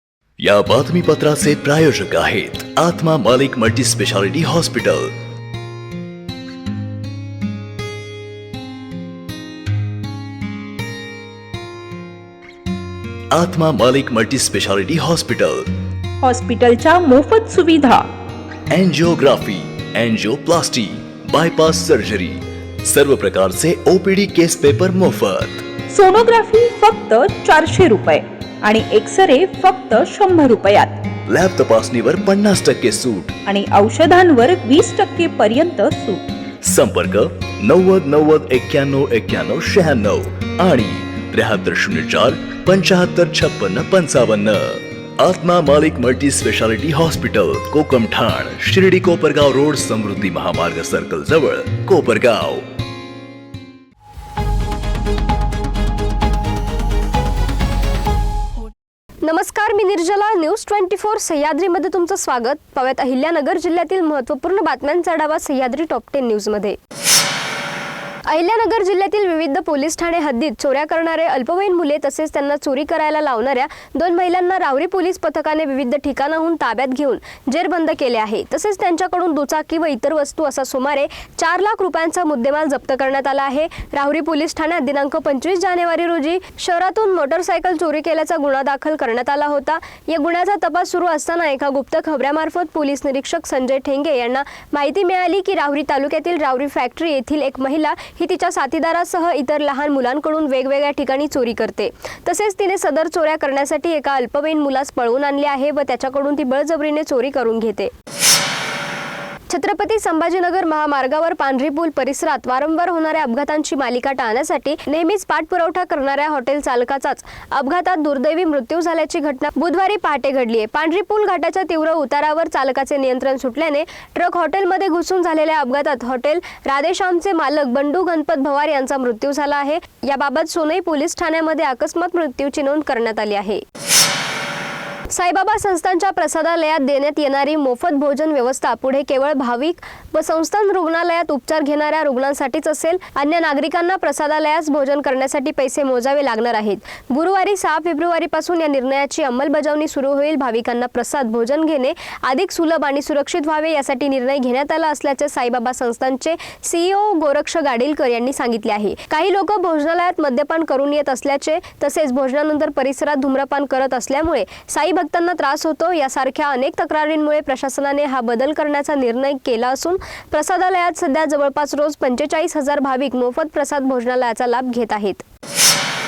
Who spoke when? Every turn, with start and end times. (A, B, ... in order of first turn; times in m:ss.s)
0:00.4-0:05.2 A
0:13.3-0:15.8 A
0:16.2-0:18.1 B
0:18.7-0:25.7 A
0:25.9-0:31.0 B
0:31.3-0:33.4 A
0:33.5-0:36.2 B
0:36.6-0:52.7 A
0:59.2-1:06.8 C
1:08.3-1:47.9 C
1:49.5-2:13.6 C
2:15.1-2:55.2 C